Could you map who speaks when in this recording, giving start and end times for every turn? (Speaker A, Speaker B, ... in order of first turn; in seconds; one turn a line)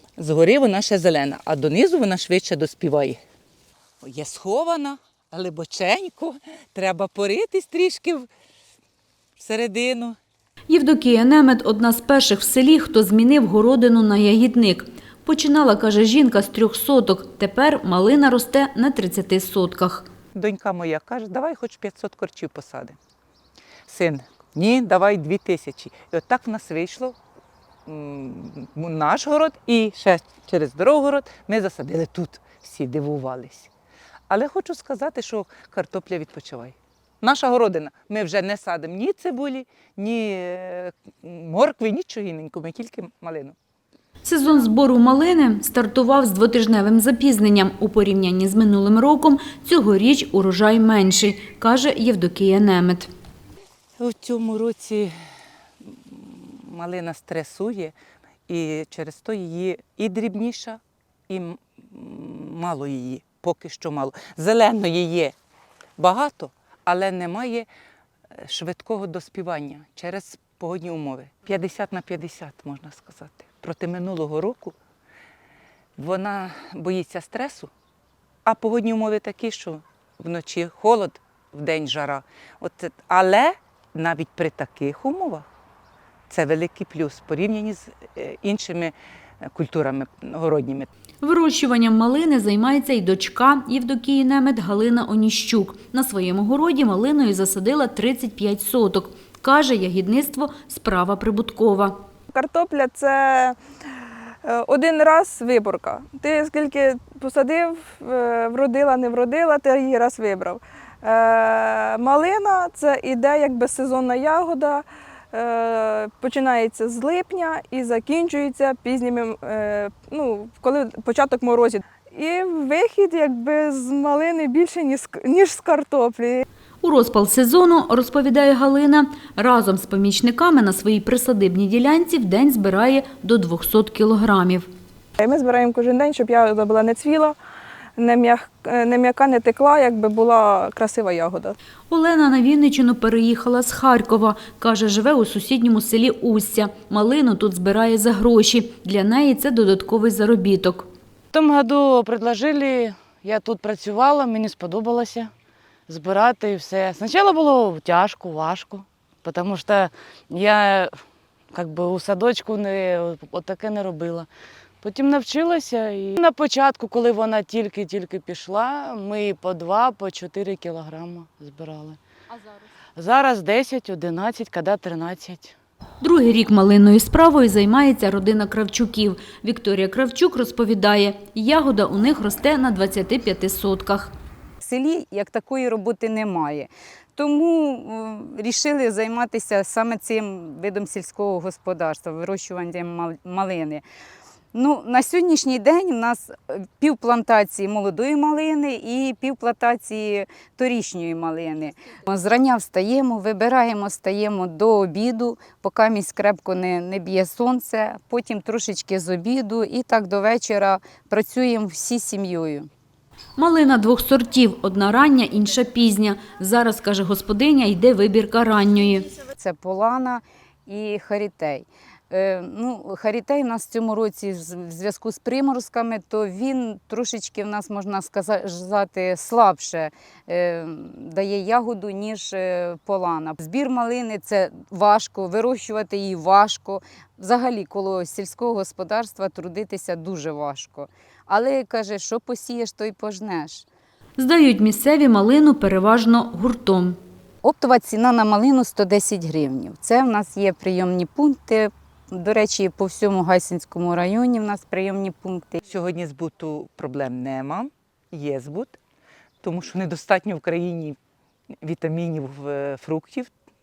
Speaker A: 0.2-3.2
Speaker A: 4.0-8.3
Speaker A: 9.4-10.2
Speaker B: 10.7-20.1
Speaker A: 20.3-23.0
Speaker A: 23.9-27.1
Speaker A: 27.9-33.7
Speaker A: 34.3-43.5
Speaker B: 44.2-53.1
Speaker A: 54.0-55.1
Speaker A: 56.1-57.9
Speaker A: 58.5-65.3
Speaker A: 66.0-67.7
Speaker A: 68.4-74.7
Speaker A: 76.0-77.7
Speaker A: 78.4-85.5
Speaker A: 86.3-90.9
Speaker B: 91.2-102.0
Speaker C: 102.3-103.6
Speaker C: 104.4-126.5
Speaker B: 126.8-134.7
Speaker C: 135.2-137.3
Speaker C: 138.0-141.6
Speaker B: 141.9-150.9
Speaker D: 151.3-155.3
Speaker D: 155.9-160.9
Speaker D: 161.5-164.3
Speaker D: 164.8-172.0
Speaker D: 172.9-175.6
Speaker B: 176.0-184.1
Speaker E: 184.6-193.8
Speaker E: 194.5-212.7
Speaker B: 213.4-219.1
Speaker E: 219.4-243.7
Speaker B: 244.2-247.0
Speaker E: 247.4-255.6
Speaker A: 255.7-258.8
Speaker A: 259.4-261.0
Speaker A: 261.6-263.3